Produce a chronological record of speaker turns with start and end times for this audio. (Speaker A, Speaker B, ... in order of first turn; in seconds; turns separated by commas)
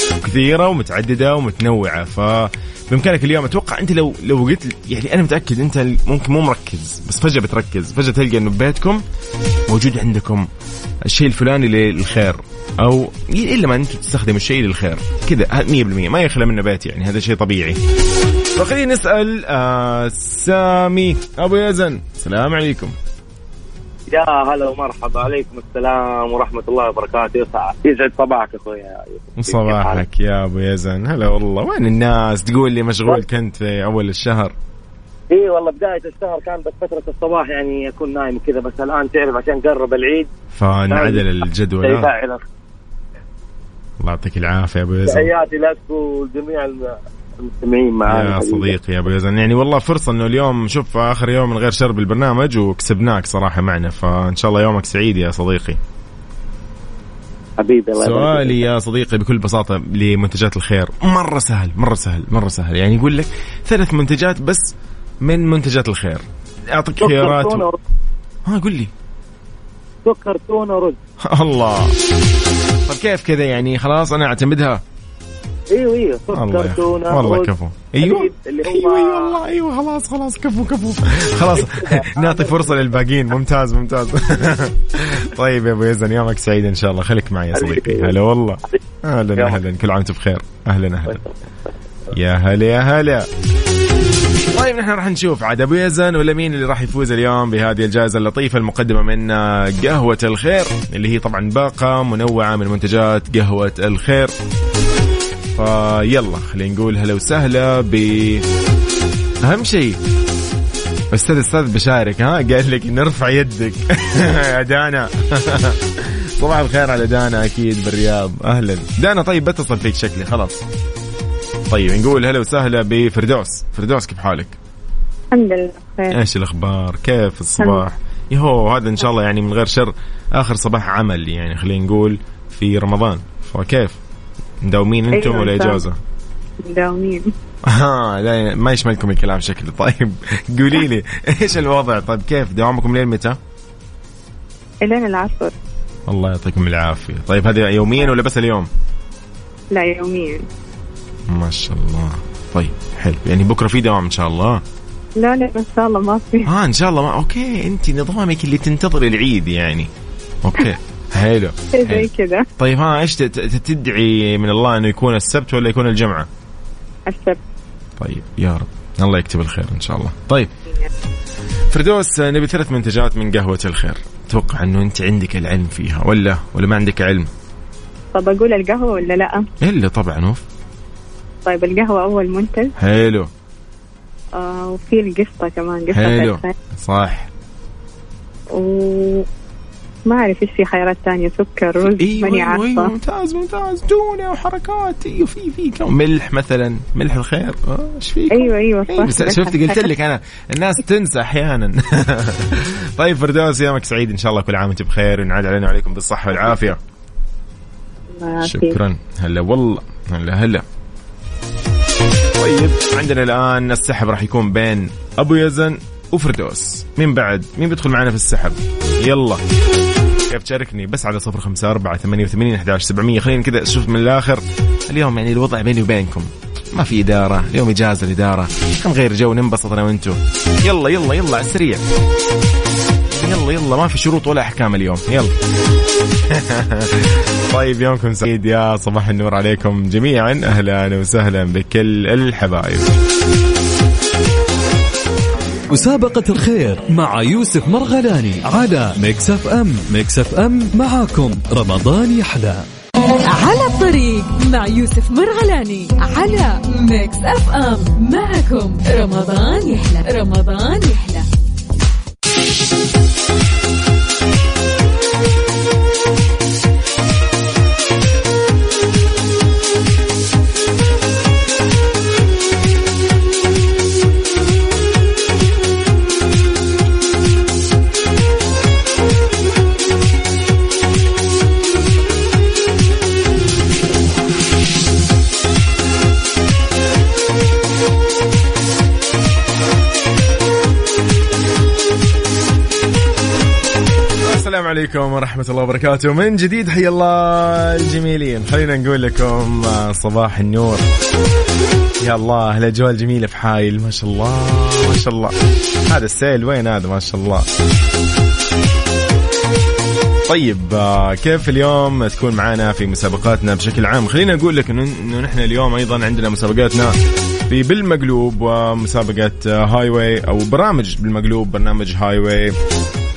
Speaker A: 0.2-9.0, Speaker A: 9.7-10.5, Speaker A: 11.1-17.8, Speaker A: 18.5-22.9, Speaker B: 24.1-30.0, Speaker A: 29.4-34.5, Speaker B: 35.3-40.3, Speaker A: 40.5-42.1, Speaker B: 40.9-41.3, Speaker B: 41.8-42.4, Speaker A: 44.0-45.3, Speaker B: 45.0-48.7, Speaker A: 48.0-55.8, Speaker B: 57.6-58.6, Speaker A: 58.0-64.7, Speaker A: 65.2-67.6, Speaker B: 67.0-67.8, Speaker A: 68.4-68.9, Speaker B: 70.0-71.0, Speaker A: 71.2-71.9, Speaker A: 72.9-74.8, Speaker B: 75.7-79.4, Speaker A: 76.3-91.2, Speaker B: 81.5-82.8, Speaker B: 87.5-88.1, Speaker A: 92.1-93.3, Speaker A: 94.5-104.3, Speaker A: 105.5-108.5, Speaker A: 109.4-110.0, Speaker A: 111.1-120.6, Speaker A: 121.7-124.5, Speaker C: 125.3-126.2, Speaker A: 126.1-134.0, Speaker A: 134.6-136.0, Speaker C: 135.1-135.8, Speaker C: 136.6-137.3, Speaker A: 137.7-143.4, Speaker C: 144.8-145.5, Speaker A: 146.1-148.7, Speaker C: 149.7-150.4, Speaker A: 151.3-154.6, Speaker C: 155.2-156.4, Speaker A: 156.4-159.9, Speaker A: 160.4-166.3, Speaker C: 161.8-162.4, Speaker C: 167.1-167.4, Speaker A: 168.0-170.5, Speaker A: 171.7-177.3, Speaker C: 178.1-179.4, Speaker A: 179.6-180.4, Speaker C: 181.4-182.7, Speaker A: 182.8-183.3, Speaker C: 184.4-186.5, Speaker A: 185.9-187.3, Speaker C: 188.5-189.2, Speaker C: 190.1-192.9, Speaker A: 191.8-206.8, Speaker C: 198.3-199.9, Speaker C: 208.2-208.8, Speaker A: 208.4-210.6, Speaker A: 212.4-219.4, Speaker A: 220.3-231.8, Speaker A: 233.1-235.3, Speaker A: 236.3-242.9, Speaker D: 245.7-252.6, Speaker E: 253.3-261.3, Speaker A: 294.2-300.9, Speaker A: 302.0-305.3, Speaker A: 305.9-307.5, Speaker A: 310.3-316.9, Speaker A: 317.5-322.6